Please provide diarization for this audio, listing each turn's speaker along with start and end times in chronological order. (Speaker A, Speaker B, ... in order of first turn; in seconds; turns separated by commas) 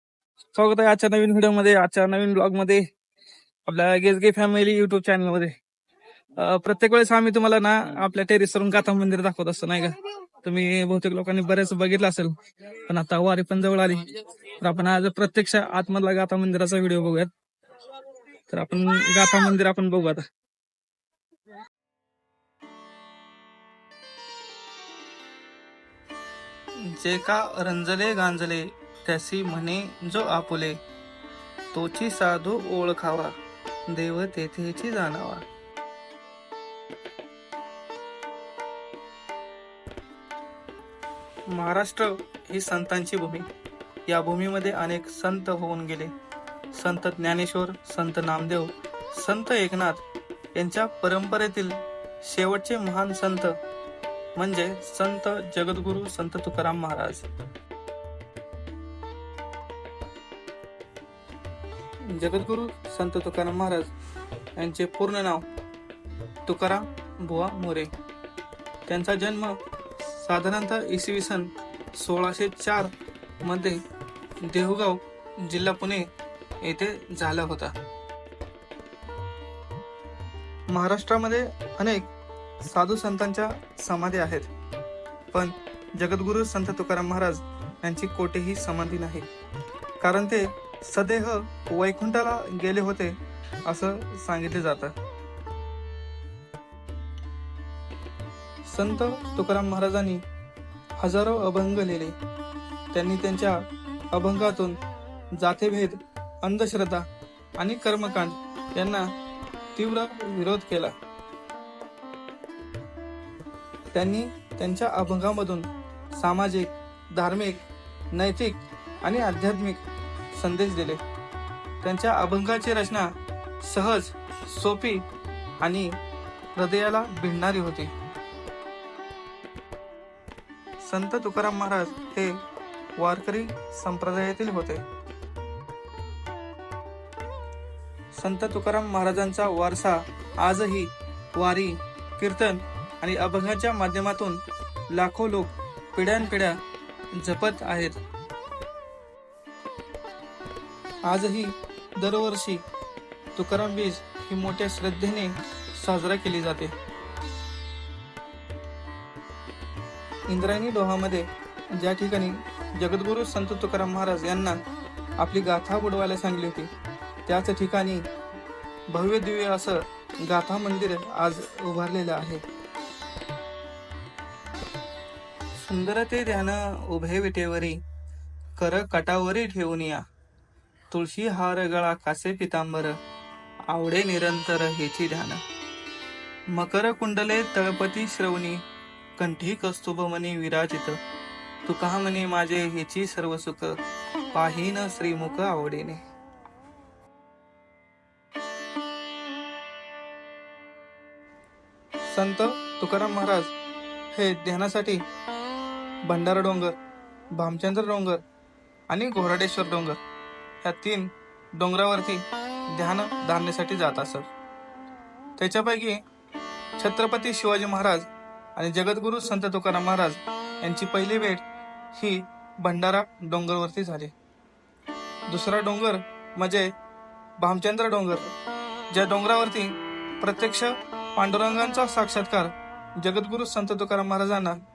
Speaker A: 0.5-2.8, Speaker A: 3.6-5.5, Speaker A: 6.4-17.3, Speaker A: 18.5-20.2, Speaker A: 27.0-30.8, Speaker A: 31.7-33.3, Speaker A: 33.9-35.4, Speaker A: 41.5-43.4, Speaker A: 44.1-46.1, Speaker A: 46.7-50.0, Speaker A: 50.5-53.5, Speaker A: 54.4-57.2, Speaker A: 62.1-63.9, Speaker A: 64.6-65.5, Speaker A: 66.5-67.9, Speaker A: 68.9-72.9, Speaker A: 73.4-73.8, Speaker A: 74.5-76.0, Speaker A: 76.6-77.7, Speaker A: 80.7-82.1, Speaker A: 82.7-84.5, Speaker A: 85.3-89.3, Speaker A: 90.0-94.9, Speaker A: 98.7-100.2, Speaker A: 101.0-102.1, Speaker A: 102.9-103.6, Speaker A: 104.1-104.8, Speaker A: 105.3-107.0, Speaker A: 107.6-109.1, Speaker A: 109.8-111.0, Speaker A: 113.9-119.8, Speaker A: 120.3-121.0, Speaker A: 121.8-123.1, Speaker A: 123.6-125.0, Speaker A: 125.6-125.9, Speaker A: 126.6-127.9, Speaker A: 130.8-132.4, Speaker A: 133.0-134.8, Speaker A: 138.2-144.4, Speaker A: 144.9-146.6, Speaker A: 147.2-147.9, Speaker A: 151.1-152.6, Speaker A: 153.3-156.7, Speaker A: 160.3-164.6, Speaker A: 165.2-166.7, Speaker A: 167.2-168.0, Speaker A: 168.9-172.4, Speaker A: 175.6-177.8, Speaker A: 178.6-180.0, Speaker A: 180.9-182.9, Speaker A: 183.7-185.4, Speaker A: 186.5-188.6, Speaker A: 189.2-191.0, Speaker A: 191.7-193.8, Speaker A: 194.3-196.0, Speaker A: 202.1-203.5, Speaker A: 204.1-205.0, Speaker A: 206.1-206.8, Speaker A: 207.3-208.2, Speaker A: 208.9-210.0, Speaker A: 210.6-214.3, Speaker A: 215.4-216.0, Speaker A: 216.8-224.1, Speaker A: 225.3-226.7, Speaker A: 227.4-228.3, Speaker A: 228.9-234.6